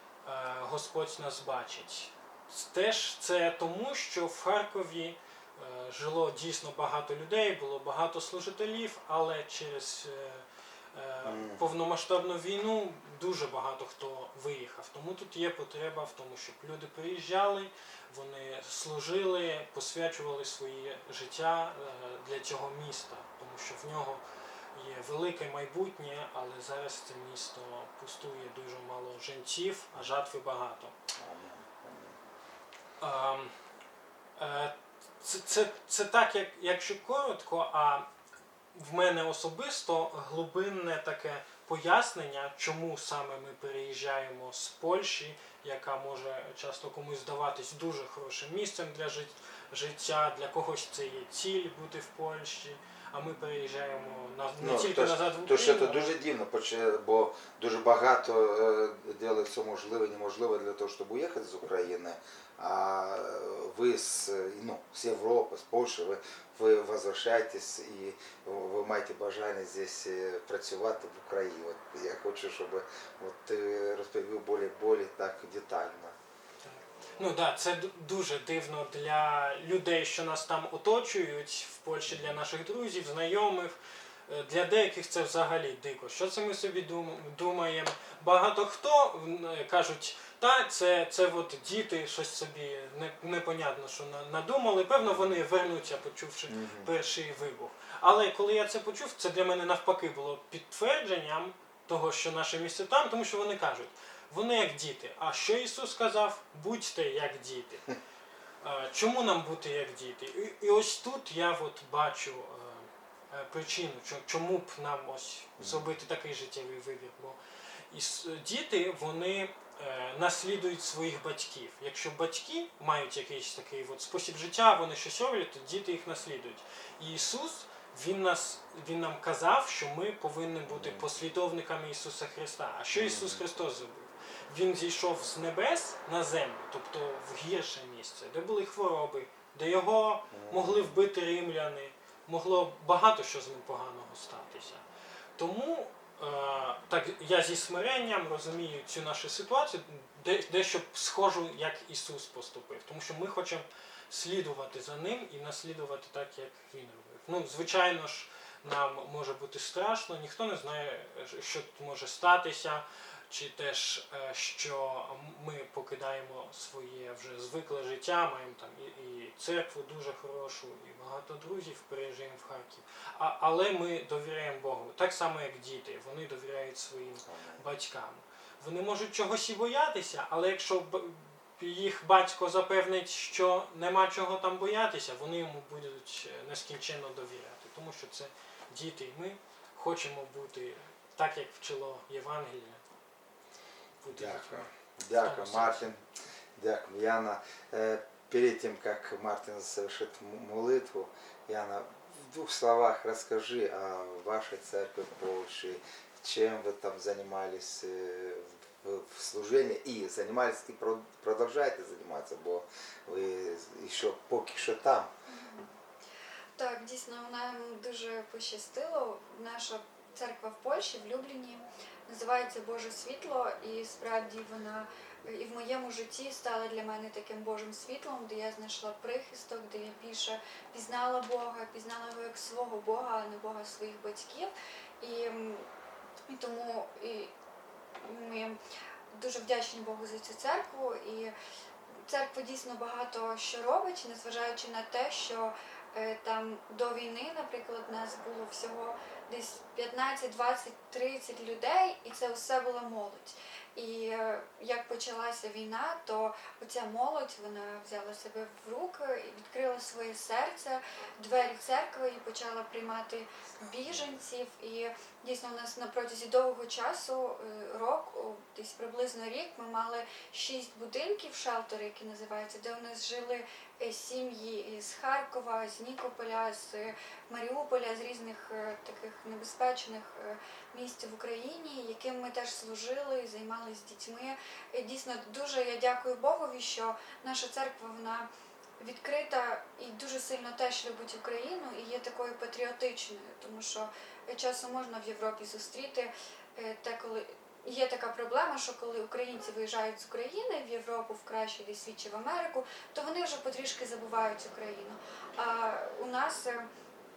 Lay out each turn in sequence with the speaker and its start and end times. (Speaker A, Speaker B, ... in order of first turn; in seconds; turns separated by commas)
Speaker A: 0.2-24.2, Speaker B: 11.2-11.7, Speaker A: 24.7-30.9, Speaker B: 31.2-32.2, Speaker A: 33.0-33.5, Speaker A: 34.4-38.1, Speaker A: 38.7-56.1, Speaker B: 54.6-76.1, Speaker A: 76.6-107.9, Speaker B: 82.1-82.3, Speaker B: 95.0-95.4, Speaker B: 96.5-96.9, Speaker A: 108.6-117.4, Speaker B: 115.6-115.9, Speaker A: 117.9-144.8, Speaker B: 130.7-131.2, Speaker B: 132.9-133.4, Speaker B: 140.3-140.9, Speaker A: 145.4-192.8, Speaker B: 177.2-177.6, Speaker A: 194.0-195.9, Speaker B: 194.1-196.0, Speaker B: 196.6-215.1, Speaker C: 215.3-215.7, Speaker C: 216.6-235.7, Speaker C: 236.3-237.3, Speaker C: 238.0-238.6, Speaker C: 239.1-241.3, Speaker C: 242.1-288.3, Speaker B: 263.7-264.1, Speaker C: 288.8-306.7